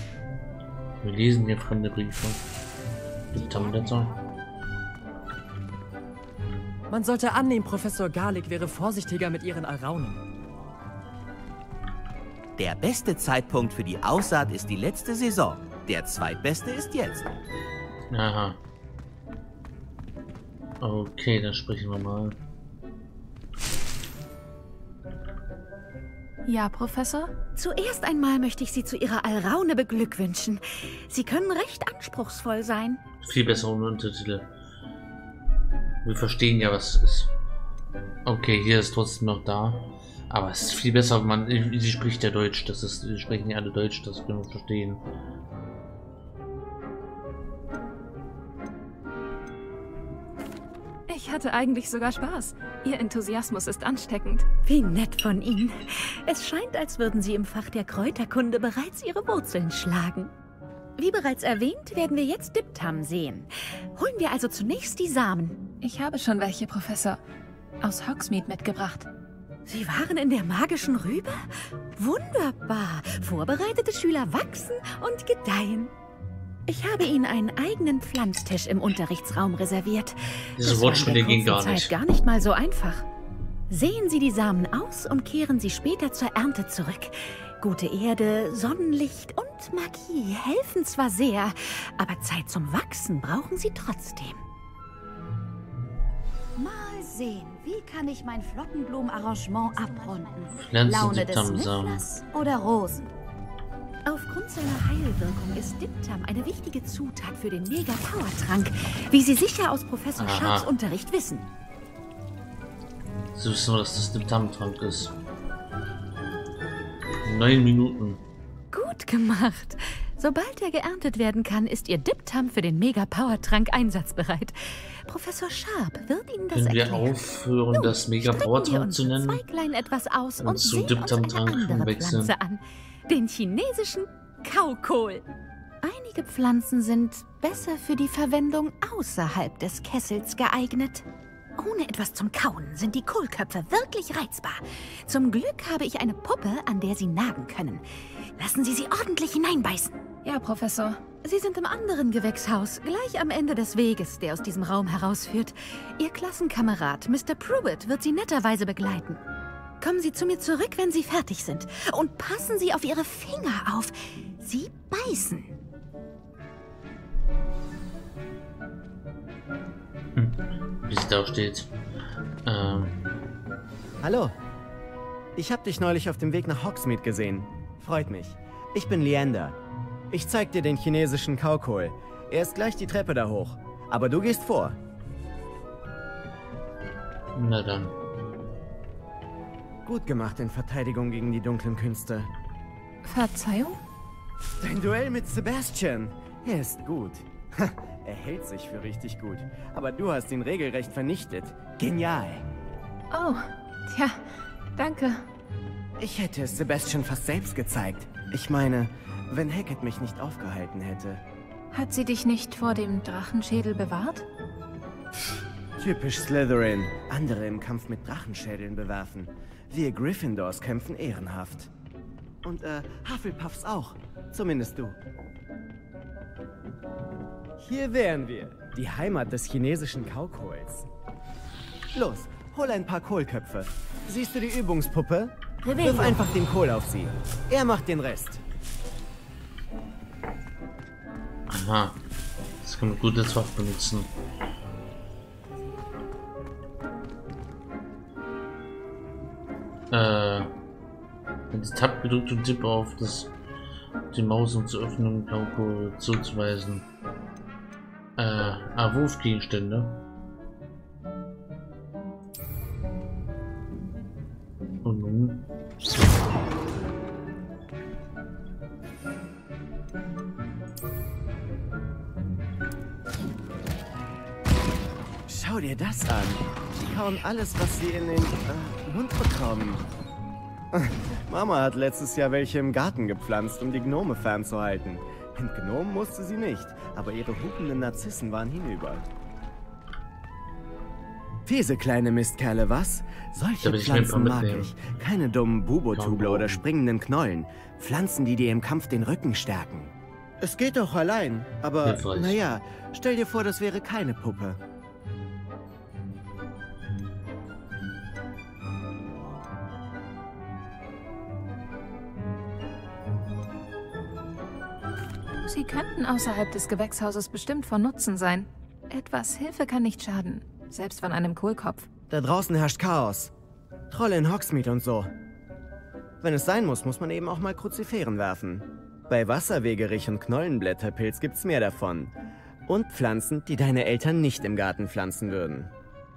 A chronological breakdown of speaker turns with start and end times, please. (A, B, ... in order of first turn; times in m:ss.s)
0:01.0-0:02.4 A
0:03.3-0:04.1 A
0:06.9-0:10.2 B
0:12.6-0:17.3 C
0:18.1-0:18.6 A
0:20.8-0:22.4 A
0:26.5-0:27.3 D
0:27.6-0:33.0 E
0:33.2-0:34.5 A
0:36.0-0:37.3 A
0:38.2-0:45.0 A
0:51.1-0:54.5 D
0:54.6-1:00.3 E
1:01.0-1:05.6 E
1:05.8-1:07.2 D
1:07.8-1:09.1 D
1:09.7-1:15.9 E
1:16.7-1:23.1 E
1:20.6-1:21.9 A
1:23.7-1:34.4 E
1:36.6-1:43.0 E
1:40.6-1:42.1 A
1:44.0-1:51.5 E
1:50.2-1:50.7 A
1:53.4-1:55.2 A
1:57.2-1:58.2 A
1:58.7-2:07.2 E
2:06.5-2:09.4 A
2:07.7-2:15.2 E
2:10.4-2:12.3 A
2:15.8-2:21.0 E
2:21.6-2:30.0 E
2:30.2-2:31.0 D
2:31.2-2:39.2 E
2:39.8-2:45.5 E
2:50.2-2:51.7 A
2:52.4-2:53.0 A
2:54.0-2:54.4 F
2:55.4-2:59.6 F
3:00.1-3:04.8 F
3:07.4-3:08.0 A
3:09.8-3:12.3 F
3:13.0-3:13.8 D
3:14.6-3:22.5 F
3:23.1-3:25.2 D
3:26.0-3:31.2 F
3:31.7-3:34.2 D
3:35.8-3:41.7 F
3:42.4-3:45.0 F
3:47.6-3:50.9 F
3:51.9-3:58.4 F
4:01.5-4:02.0 A
4:02.6-4:04.1 A
4:09.9-4:10.5 A
4:11.5-4:13.3 A
4:14.1-4:16.9 A
4:18.2-4:20.0 A
4:24.8-4:25.5 A
4:35.3-4:39.8 F
4:40.7-4:49.1 F
4:51.4-5:04.6 F
4:53.6-4:54.8 A
4:55.9-4:56.6 A
5:01.8-5:02.4 A
5:15.4-5:21.9 D
5:22.1-5:23.3 F
5:23.9-5:25.1 F
5:26.2-5:32.1 F
5:32.7-5:35.7 F